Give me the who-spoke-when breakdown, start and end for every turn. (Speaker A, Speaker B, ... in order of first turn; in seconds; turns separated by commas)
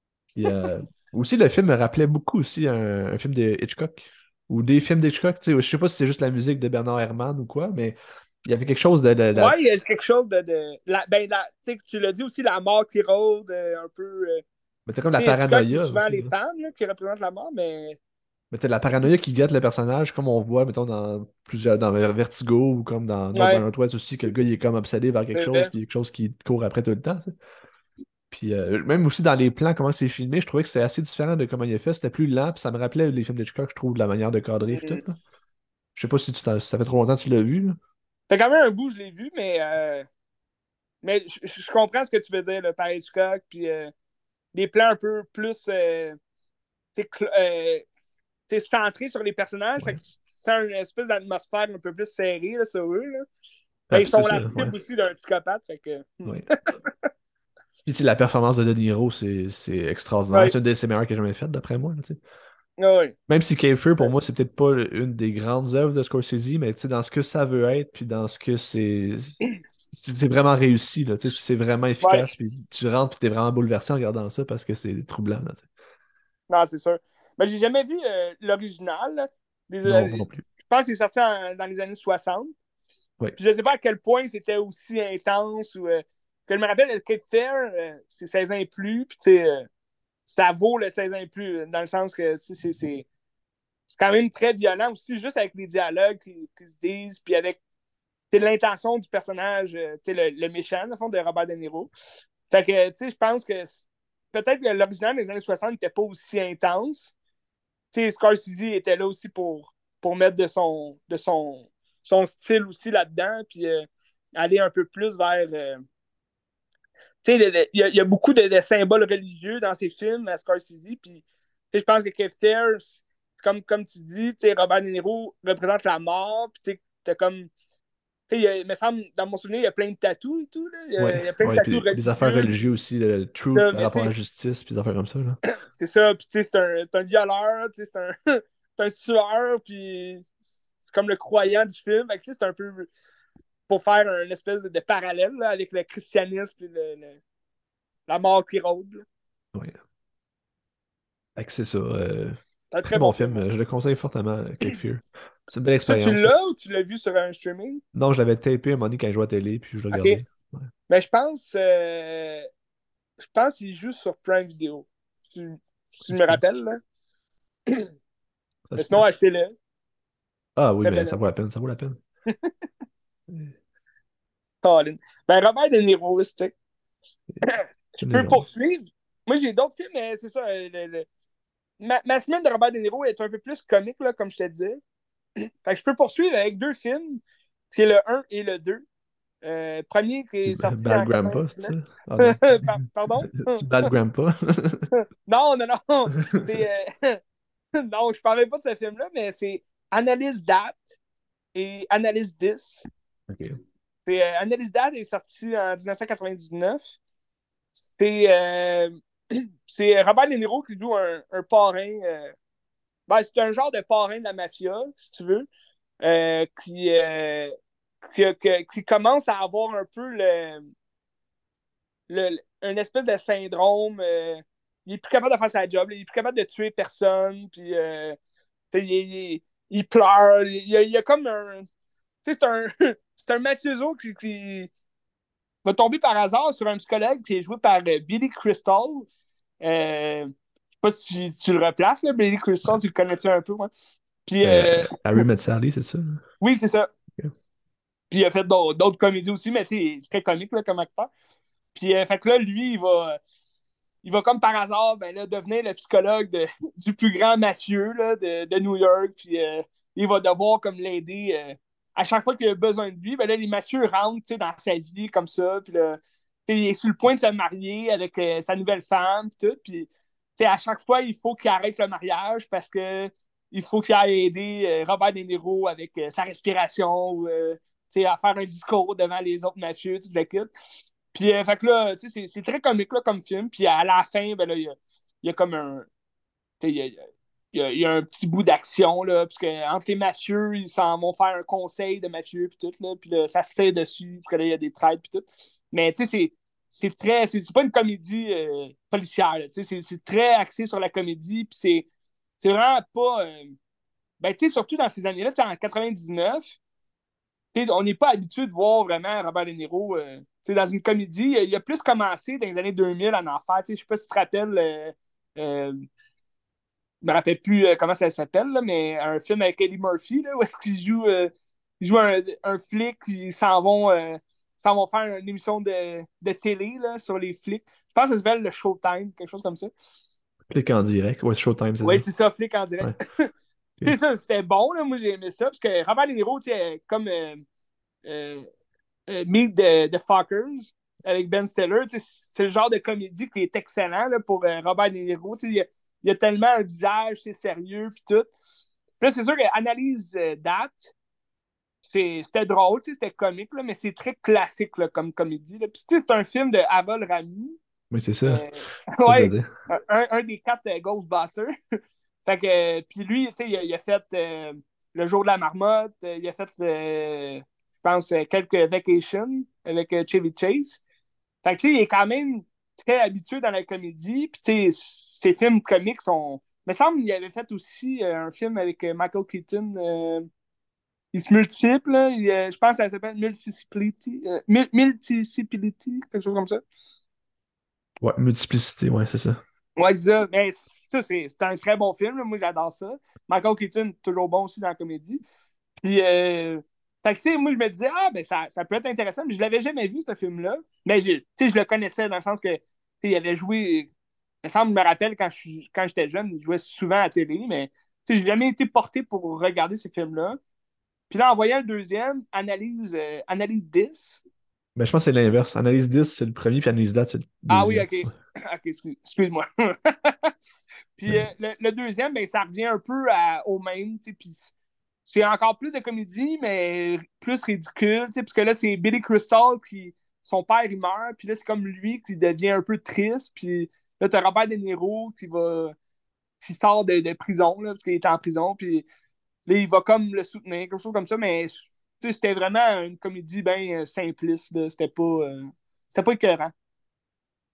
Speaker A: 0.3-9.6, Speaker B: 9.3-14.4, Speaker A: 14.9-16.3, Speaker B: 15.2-18.0, Speaker A: 18.5-27.3, Speaker B: 23.3-23.6, Speaker B: 25.3-25.7, Speaker A: 28.3-35.1, Speaker B: 34.7-35.0, Speaker A: 35.9-37.8, Speaker B: 38.3-40.0, Speaker B: 41.0-43.9, Speaker B: 44.5-46.2, Speaker B: 47.0-47.9, Speaker B: 48.5-53.2, Speaker A: 53.9-54.7, Speaker B: 53.9-57.1, Speaker A: 56.2-56.5, Speaker A: 57.9-62.2, Speaker B: 62.8-63.1, Speaker A: 63.3-69.4, Speaker A: 69.9-75.7, Speaker B: 72.0-72.2, Speaker B: 76.5-82.5, Speaker A: 79.8-80.4, Speaker B: 83.4-89.7, Speaker B: 90.3-93.0, Speaker B: 93.9-97.6, Speaker B: 98.3-101.9, Speaker B: 102.5-107.1, Speaker B: 107.9-113.8, Speaker B: 114.4-115.8, Speaker B: 117.2-127.5, Speaker B: 128.3-132.5, Speaker A: 131.0-135.4, Speaker B: 133.5-134.1, Speaker B: 135.6-140.3, Speaker B: 140.8-142.9, Speaker B: 143.7-147.2, Speaker B: 148.1-149.0, Speaker A: 151.3-156.3, Speaker B: 152.7-153.4, Speaker B: 155.8-157.8, Speaker A: 157.9-160.7, Speaker B: 159.9-160.2, Speaker B: 160.9-162.5, Speaker B: 163.2-166.8, Speaker A: 166.1-166.4, Speaker A: 168.7-169.0, Speaker B: 168.8-169.5, Speaker A: 170.6-172.0, Speaker B: 170.8-171.2, Speaker A: 173.3-173.5, Speaker B: 174.6-176.5, Speaker B: 177.4-181.1, Speaker A: 178.0-178.4, Speaker B: 181.8-184.8, Speaker B: 185.6-188.8, Speaker B: 189.4-193.9, Speaker A: 190.4-194.9, Speaker B: 194.9-197.2, Speaker B: 197.8-200.8, Speaker B: 201.5-202.8, Speaker A: 203.3-203.6, Speaker B: 204.1-206.8, Speaker B: 207.9-212.3, Speaker B: 213.1-215.5, Speaker B: 216.0-220.7, Speaker B: 222.1-228.2, Speaker B: 228.7-231.7, Speaker B: 232.2-234.7, Speaker B: 235.6-239.1, Speaker B: 239.6-243.7, Speaker B: 244.2-244.9, Speaker A: 244.4-246.2, Speaker B: 246.4-246.9, Speaker B: 248.1-251.1, Speaker B: 251.7-253.2, Speaker B: 254.0-280.5, Speaker B: 281.1-285.9, Speaker B: 286.6-287.0, Speaker B: 287.5-301.9, Speaker B: 302.4-303.5, Speaker B: 304.2-306.5, Speaker B: 307.5-315.8, Speaker B: 317.0-329.7, Speaker A: 330.5-332.1, Speaker B: 331.8-333.3, Speaker B: 333.9-337.4, Speaker B: 338.0-338.4, Speaker B: 339.1-348.3, Speaker B: 349.0-350.9, Speaker B: 351.9-357.6, Speaker A: 357.9-358.4, Speaker B: 358.3-361.5, Speaker A: 359.0-359.5, Speaker B: 362.2-370.8, Speaker B: 371.4-380.3, Speaker B: 381.1-386.6, Speaker A: 388.0-389.4, Speaker B: 389.8-395.2, Speaker B: 395.8-403.9, Speaker B: 404.4-410.4, Speaker B: 411.1-414.2, Speaker A: 414.8-417.9, Speaker B: 417.5-420.3, Speaker B: 421.0-424.5, Speaker B: 425.1-435.8, Speaker B: 436.4-438.9, Speaker B: 439.5-446.5